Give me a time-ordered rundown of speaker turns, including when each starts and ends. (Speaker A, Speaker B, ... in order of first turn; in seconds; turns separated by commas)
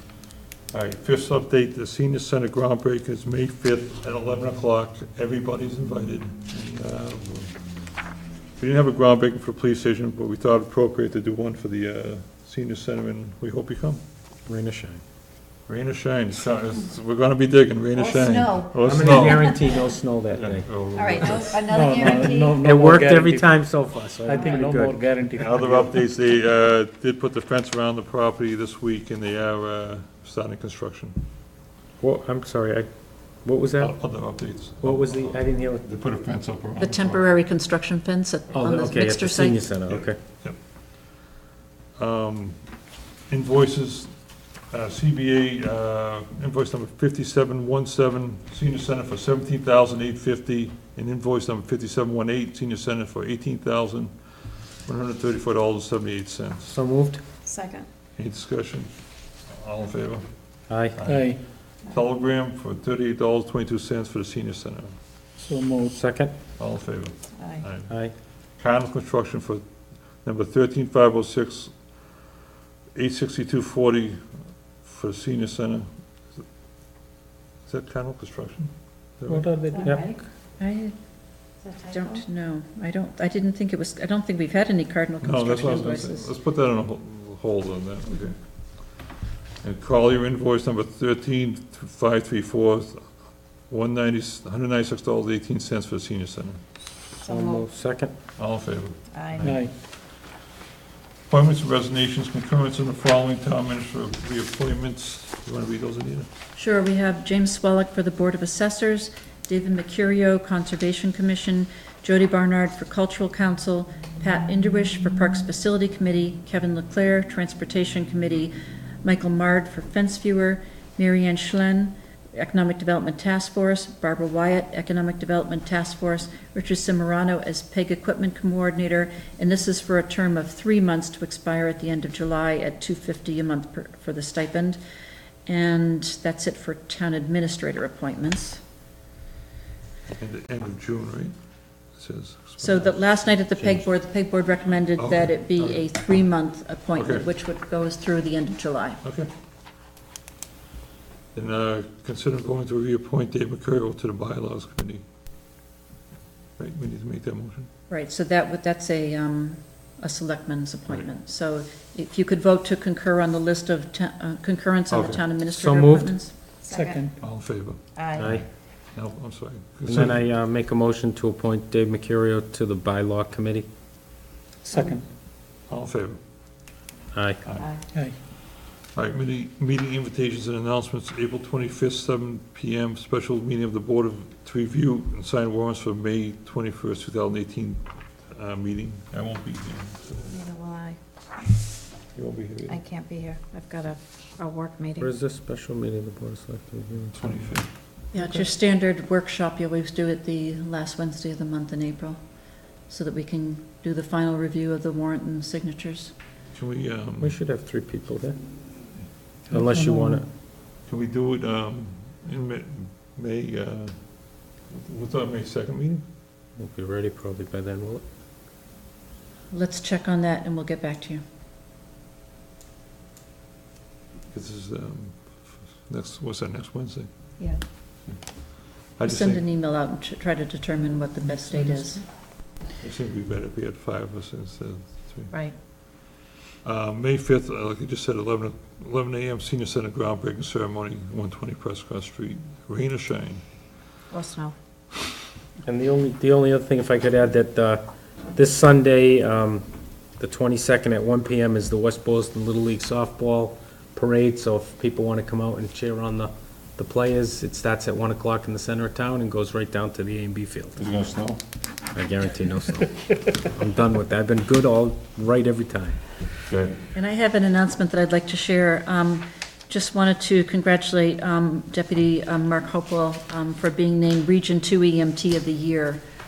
Speaker A: 0.7-7.6, Speaker A: 8.6-14.0, Speaker B: 14.5-15.0, Speaker A: 15.7-21.6, Speaker C: 18.0-19.2, Speaker B: 18.8-21.3, Speaker C: 21.0-22.5, Speaker D: 21.0-22.6, Speaker E: 21.6-23.6, Speaker B: 22.6-25.0, Speaker E: 24.2-26.0, Speaker A: 25.4-31.2, Speaker B: 32.0-32.9, Speaker B: 33.4-34.0, Speaker A: 33.8-37.2, Speaker B: 34.8-35.9, Speaker C: 36.8-39.6, Speaker B: 38.5-40.2, Speaker A: 39.9-40.6, Speaker A: 42.0-42.6, Speaker A: 43.3-44.2, Speaker A: 44.7-54.1, Speaker A: 54.9-56.8, Speaker B: 56.7-57.2, Speaker D: 57.5-57.9, Speaker A: 58.2-58.9, Speaker A: 59.5-64.9, Speaker B: 60.7-61.0, Speaker E: 61.0-61.4, Speaker E: 65.4-66.0, Speaker B: 65.9-66.3, Speaker A: 66.6-69.6, Speaker D: 67.4-67.7, Speaker B: 67.9-68.1, Speaker A: 70.2-71.7, Speaker A: 73.0-74.2, Speaker A: 74.8-76.4, Speaker A: 77.7-79.5, Speaker E: 79.2-80.1, Speaker D: 79.7-80.2, Speaker C: 80.6-81.0, Speaker D: 81.6-82.2, Speaker C: 81.9-86.3, Speaker A: 85.2-89.0, Speaker A: 89.6-93.2, Speaker A: 93.7-96.6, Speaker D: 97.2-97.7, Speaker B: 97.2-98.1, Speaker A: 98.4-99.7, Speaker D: 99.1-99.6, Speaker E: 99.4-99.7, Speaker A: 101.3-106.3, Speaker C: 106.5-134.8, Speaker C: 135.5-138.6, Speaker A: 140.1-141.3, Speaker A: 141.9-143.9, Speaker C: 142.6-149.0, Speaker A: 145.0-145.8, Speaker A: 146.9-147.3, Speaker A: 149.0-149.3, Speaker A: 151.3-155.0, Speaker A: 156.6-157.7, Speaker C: 157.9-166.3, Speaker A: 164.9-165.2, Speaker B: 165.5-166.2, Speaker D: 166.6-167.1, Speaker E: 166.7-167.2, Speaker A: 167.2-170.2, Speaker D: 168.0-168.3, Speaker B: 168.2-168.5, Speaker B: 169.9-173.7, Speaker E: 174.6-175.0, Speaker A: 175.7-176.2, Speaker B: 177.1-177.4, Speaker D: 177.6-177.9, Speaker A: 178.9-190.3, Speaker D: 190.3-191.0, Speaker A: 192.2-192.8, Speaker D: 192.7-195.1, Speaker B: 195.0-197.2, Speaker A: 197.1-197.7, Speaker C: 198.1-206.2, Speaker A: 206.5-207.4, Speaker B: 207.2-208.4, Speaker E: 209.5-210.2, Speaker B: 209.5-210.3, Speaker A: 210.8-216.0, Speaker B: 216.6-218.0, Speaker C: 219.5-221.2, Speaker A: 224.3-227.1, Speaker A: 228.1-229.4, Speaker C: 229.0-232.0, Speaker A: 232.7-235.4, Speaker D: 235.3-235.6, Speaker A: 236.6-243.4, Speaker D: 244.1-244.6, Speaker B: 245.6-247.8, Speaker B: 248.3-249.7, Speaker B: 250.2-260.8, Speaker A: 260.8-261.4, Speaker B: 261.9-266.0, Speaker A: 266.5-266.8, Speaker C: 266.9-276.0